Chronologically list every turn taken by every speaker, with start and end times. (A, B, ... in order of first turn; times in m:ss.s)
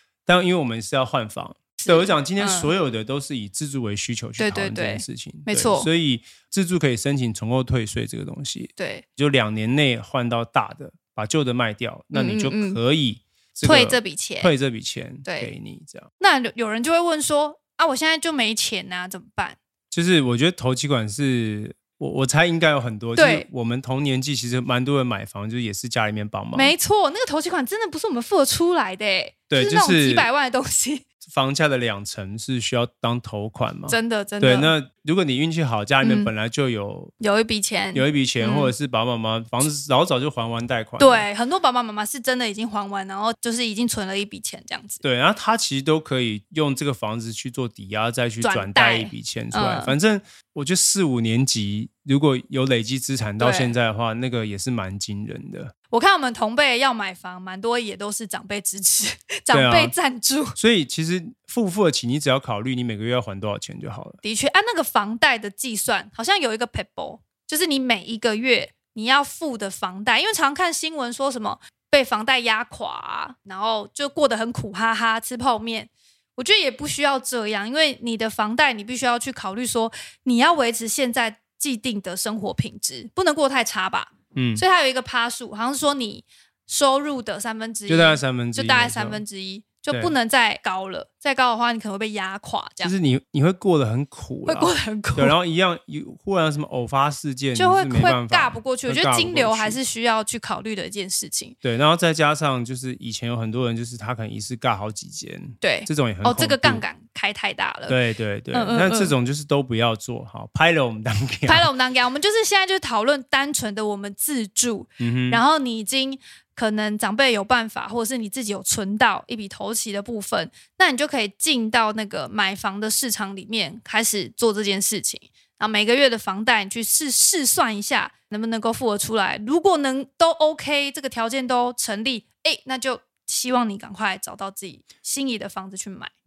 0:00.2-0:16.1 A
0:01.8-0:02.7 B
0:04.4-0:05.9 B
0:08.8-0:09.0 B
0:12.1-0:12.8 B
0:13.6-0:14.5 B
0:15.2-0:15.5 B
0:16.2-0:19.6 B
0:19.9-0:26.7 A
0:23.1-0:23.5 B
0:26.5-0:31.0 B
0:29.5-0:30.3 A
0:31.2-0:37.1 A
0:33.9-0:34.7 B
0:36.0-0:36.3 B
0:37.2-0:38.7 B
0:37.9-0:41.3 A
0:41.0-0:45.0 B
0:45.0-0:55.7 A
0:48.4-0:49.9 B
0:53.4-0:53.7 B
0:55.9-1:00.6 B
0:59.5-1:00.0 A
1:00.6-1:04.2 A
1:04.2-1:32.9 B
1:24.3-1:24.6 A
1:27.9-1:29.2 A
1:29.9-1:30.1 A
1:32.8-1:39.8 A
1:34.4-1:35.3 B
1:37.5-1:41.6 B
1:41.6-1:46.8 A
1:45.6-1:48.0 B
1:47.9-1:51.7 A
1:48.5-1:49.1 B
1:51.5-2:16.1 B
1:55.0-1:55.4 A